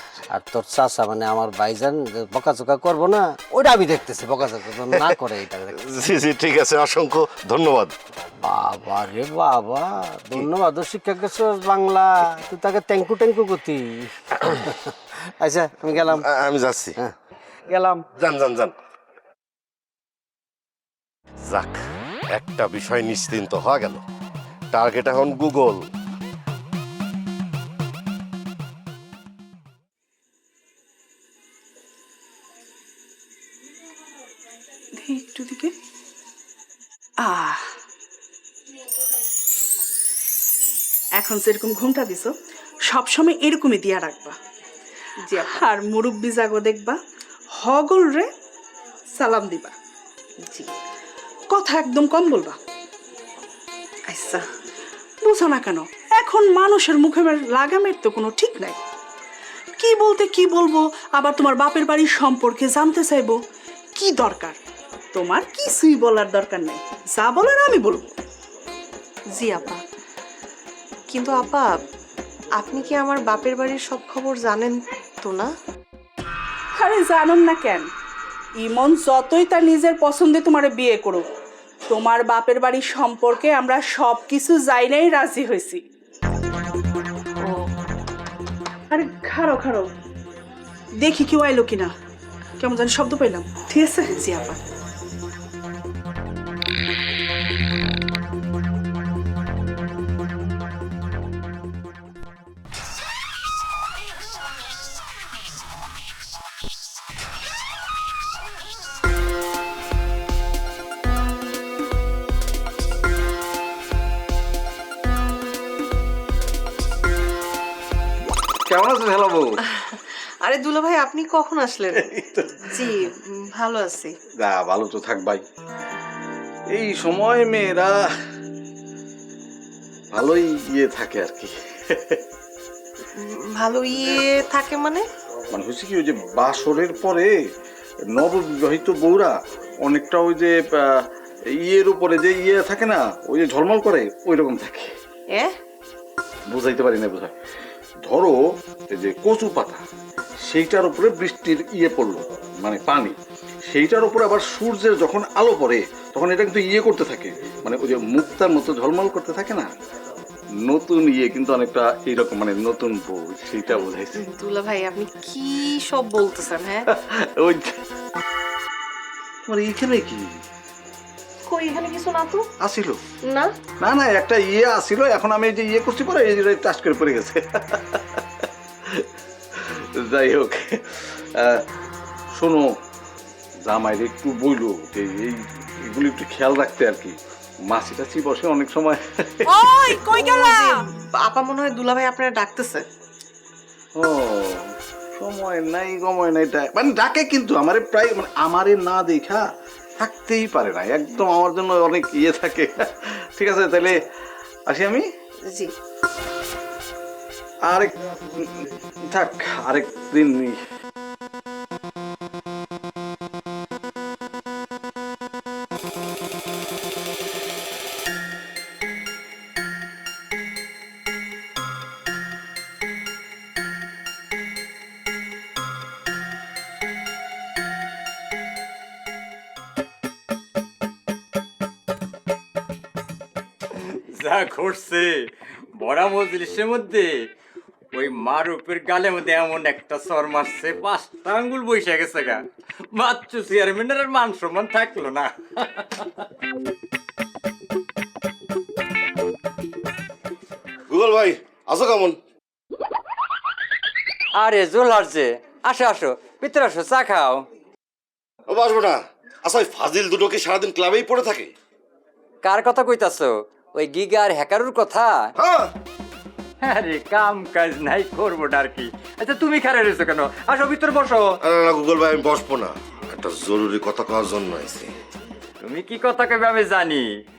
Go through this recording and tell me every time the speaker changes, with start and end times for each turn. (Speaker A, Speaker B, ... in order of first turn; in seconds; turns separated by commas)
Speaker A: 0.3-5.7, Speaker B: 5.8-7.9, Speaker A: 8.4-14.7, Speaker A: 15.4-16.2, Speaker B: 16.1-17.0, Speaker A: 17.7-18.0, Speaker B: 18.1-18.7, Speaker B: 21.5-21.8, Speaker B: 22.3-24.0, Speaker B: 24.7-25.9, Speaker C: 35.0-35.7, Speaker C: 37.2-37.7, Speaker C: 41.2-42.3, Speaker C: 42.9-44.4, Speaker C: 45.3-47.0, Speaker C: 47.5-48.3, Speaker C: 49.2-49.7, Speaker C: 51.5-52.6, Speaker C: 55.2-58.8, Speaker C: 59.8-63.4, Speaker C: 64.0-64.6, Speaker C: 65.1-68.1, Speaker D: 69.4-69.8, Speaker D: 71.1-71.7, Speaker D: 72.6-75.5, Speaker C: 76.8-77.9, Speaker C: 78.6-81.2, Speaker C: 81.9-85.8, Speaker C: 88.9-89.9, Speaker C: 91.0-91.9, Speaker C: 92.6-94.6, Speaker E: 118.7-119.5, Speaker D: 120.4-122.0, Speaker E: 121.9-123.1, Speaker D: 122.8-124.1, Speaker E: 124.4-125.4, Speaker E: 126.8-128.0, Speaker E: 130.1-132.2, Speaker D: 133.2-135.0, Speaker E: 135.5-137.3, Speaker E: 138.1-139.3, Speaker E: 139.9-144.9, Speaker E: 146.5-147.3, Speaker E: 148.0-148.4, Speaker E: 148.9-149.8, Speaker E: 150.5-159.7, Speaker E: 160.7-164.3, Speaker D: 163.8-166.8, Speaker E: 167.1-167.7, Speaker E: 169.5-170.4, Speaker E: 172.6-173.0, Speaker E: 173.8-178.2, Speaker E: 180.0-181.6, Speaker E: 182.4-182.7, Speaker E: 183.6-187.2, Speaker E: 187.7-190.0, Speaker D: 189.9-192.8, Speaker E: 193.9-199.4, Speaker E: 200.0-204.0, Speaker E: 204.7-205.0, Speaker E: 207.7-210.6, Speaker F: 233.8-235.1, Speaker F: 235.8-237.1, Speaker F: 237.9-242.4, Speaker F: 242.9-246.2, Speaker B: 250.9-252.2, Speaker F: 254.4-257.4, Speaker B: 258.5-261.5, Speaker F: 262.4-265.3, Speaker B: 265.4-265.7, Speaker F: 266.6-271.4, Speaker B: 271.4-274.9, Speaker F: 275.6-277.1